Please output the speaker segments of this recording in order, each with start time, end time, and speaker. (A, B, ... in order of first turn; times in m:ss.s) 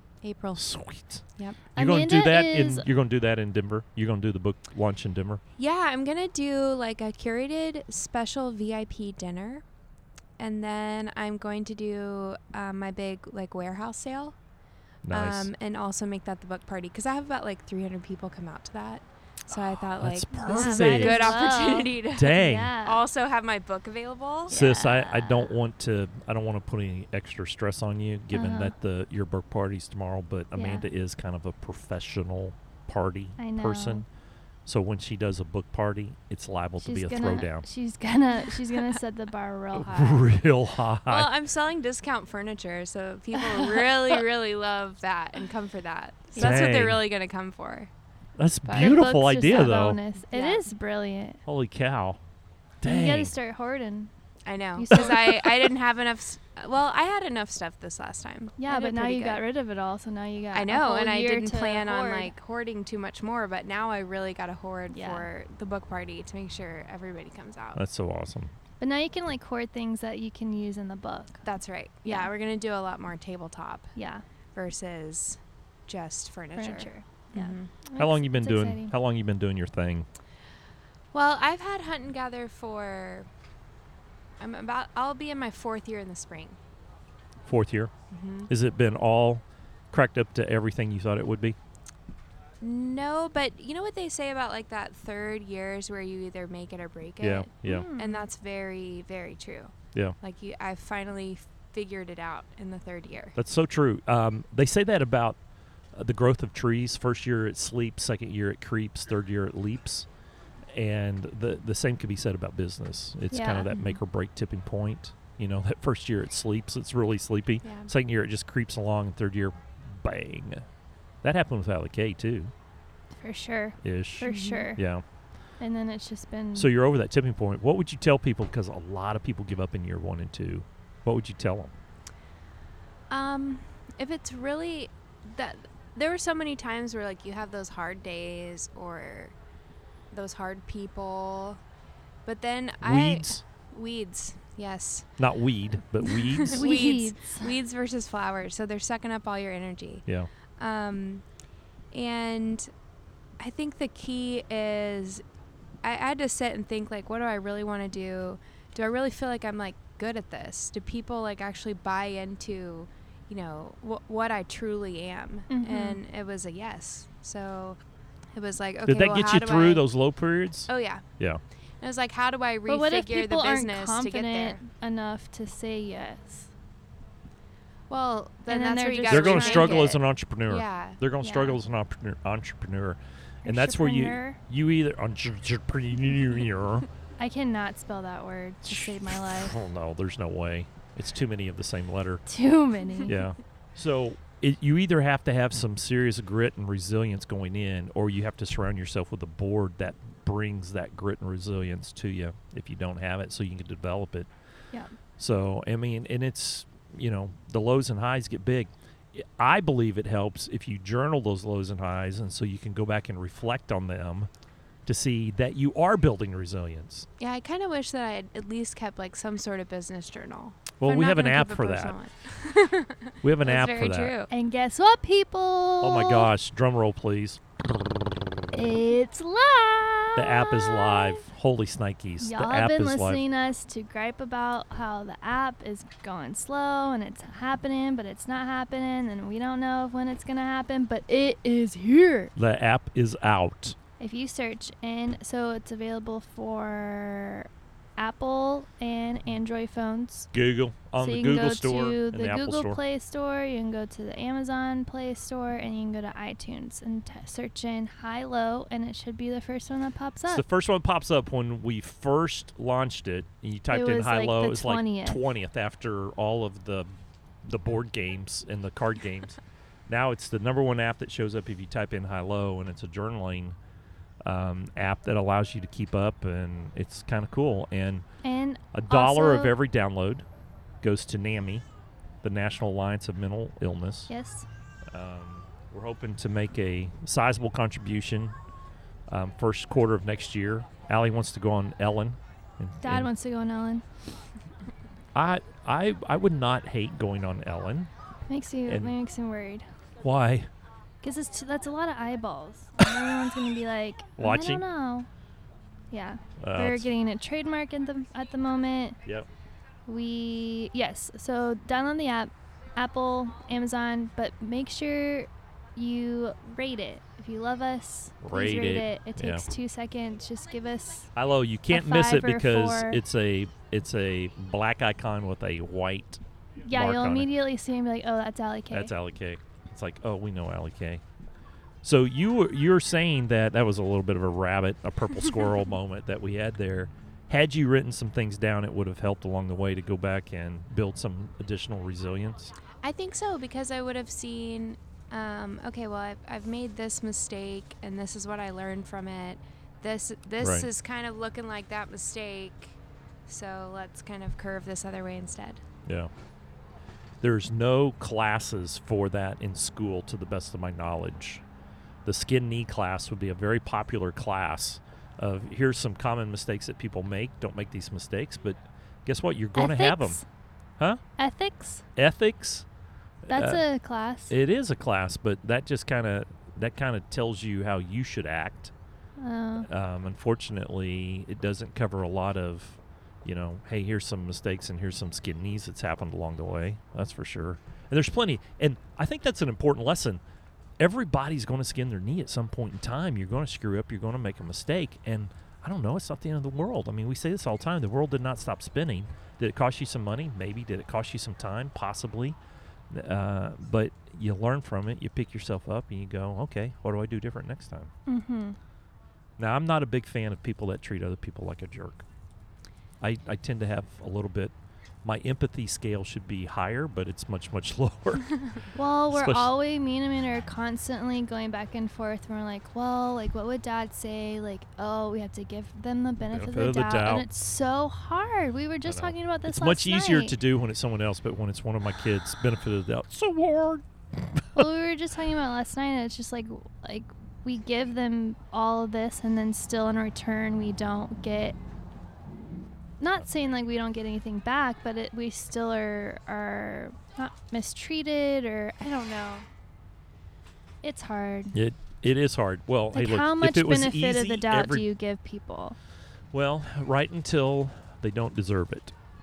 0:00.2-0:00.6 A
0:00.6-0:01.2 B
0:01.7-0:02.8 C
0:01.8-0:05.4 B
0:05.6-0:09.6 A
0:10.4-0:14.3 A
0:15.0-0:15.5 B
0:15.1-0:24.6 A
0:19.5-0:21.4 B
0:20.4-0:23.0 C
0:22.1-0:22.8 B
0:24.5-0:25.4 C
0:24.5-0:34.0 B
0:28.3-0:28.7 C
0:30.5-0:30.8 C
0:33.4-0:34.0 C
0:34.6-0:37.6 B
0:36.8-0:40.3 C
0:39.7-0:41.3 B
0:41.0-0:47.9 A
0:46.4-0:47.0 B
0:48.4-0:50.0 B
0:48.6-0:49.1 A
0:48.7-0:51.4 C
0:50.3-0:50.6 A
0:51.4-0:52.2 B
0:52.8-0:53.3 B
0:52.8-0:54.1 C
0:54.4-0:59.4 A
0:54.8-0:55.4 C
0:54.9-0:55.2 B
0:58.6-1:02.3 C
1:00.5-1:07.8 A
1:04.9-1:05.3 C
1:07.7-1:08.5 B
1:08.8-1:11.4 C
1:11.4-1:13.9 A
1:12.0-1:12.3 C
1:14.0-1:14.2 C
1:14.5-1:17.7 A
1:16.6-1:18.9 C
1:18.0-1:20.1 B
1:21.1-1:23.3 A
1:24.4-1:26.6 A
1:27.4-1:27.9 B
1:28.1-1:28.5 A
1:28.5-1:31.6 B
1:32.6-1:43.4 A
1:37.2-1:37.9 B
1:37.6-1:38.3 C
1:43.4-1:45.4 B
1:45.9-1:50.1 B
1:50.7-2:00.6 B
1:53.3-1:54.0 C
1:57.6-1:57.9 A
2:01.2-2:02.5 B
2:03.2-2:04.8 C
2:03.8-2:05.0 B
2:04.2-2:04.7 A
2:05.6-2:06.7 C
2:06.5-2:11.7 B
2:13.1-2:19.3 A
2:20.1-2:21.6 A
2:22.2-2:25.2 A
2:22.8-2:23.4 B
2:25.2-2:26.6 B
2:26.0-2:30.0 A
2:26.5-2:27.5 C
2:30.6-2:31.2 A
2:31.9-2:32.7 A
2:33.4-2:35.2 A
2:35.8-2:47.8 A
2:45.5-2:46.0 C
2:48.3-2:49.9 A
2:48.8-2:51.4 B
2:50.7-2:51.0 A
2:51.8-2:54.6 A
2:52.7-2:56.5 C
2:57.9-3:01.0 A
2:58.5-3:00.0 C
2:59.1-3:06.9 B
3:01.2-3:01.6 C
3:03.4-3:04.4 C
3:07.2-3:09.6 C
3:08.7-3:12.2 B
3:12.3-3:13.1 C
3:13.1-3:24.3 B
3:25.2-3:34.3 B
3:34.8-3:37.1 B
3:37.2-3:44.3 A
3:40.8-3:42.0 B
3:43.2-3:44.1 B
3:44.3-3:46.3 C
3:45.8-3:47.4 B
3:48.5-3:51.2 C
3:50.2-3:53.2 B
3:52.2-4:02.3 C
4:02.4-4:03.8 B
4:04.0-4:10.3 C
4:10.3-4:12.8 B
4:11.0-4:20.4 C
4:20.3-4:26.9 B
4:23.7-4:25.2 C
4:27.4-4:33.6 B
4:34.2-4:38.0 B
4:38.2-4:39.5 C
4:38.7-4:40.2 B
4:40.8-4:41.6 B
4:42.2-4:44.1 B
4:44.1-4:44.5 C
4:44.9-4:48.3 B
4:49.1-4:53.1 B
4:52.8-4:53.8 C
4:55.1-4:57.9 B
4:58.3-4:59.6 C
4:58.7-4:58.9 B
5:00.0-5:00.5 B
5:01.0-5:05.1 C
5:04.2-5:04.6 B
5:05.9-5:09.0 C
5:06.4-5:06.9 B
5:09.9-5:21.1 C
5:18.2-5:19.4 B
5:21.2-5:27.3 B
5:21.7-5:23.0 C
5:26.6-5:28.9 C
5:28.7-5:31.0 B
5:31.8-5:42.5 B
5:42.8-5:52.8 A
5:50.4-5:50.7 B
5:53.3-5:55.6 A
5:57.2-6:01.4 B
6:02.0-6:10.2 B
6:09.6-6:10.2 C
6:11.2-6:11.8 C
6:12.0-6:12.6 B
6:13.3-6:13.6 B
6:13.3-6:14.3 C
6:14.3-6:18.7 B
6:19.2-6:19.7 C
6:19.6-6:30.2 B
6:30.8-6:42.4 B
6:42.9-6:47.9 B
6:48.1-6:48.6 C
6:49.4-6:52.0 B
6:53.0-6:58.3 B
6:58.7-7:10.4 C
6:59.1-6:59.5 B
7:06.3-7:07.2 B
7:08.8-7:14.7 B
7:14.5-7:21.6 C
7:23.0-7:29.4 C
7:30.8-7:31.6 C
7:31.5-7:34.8 B
7:32.9-7:35.8 C
7:36.3-7:38.9 B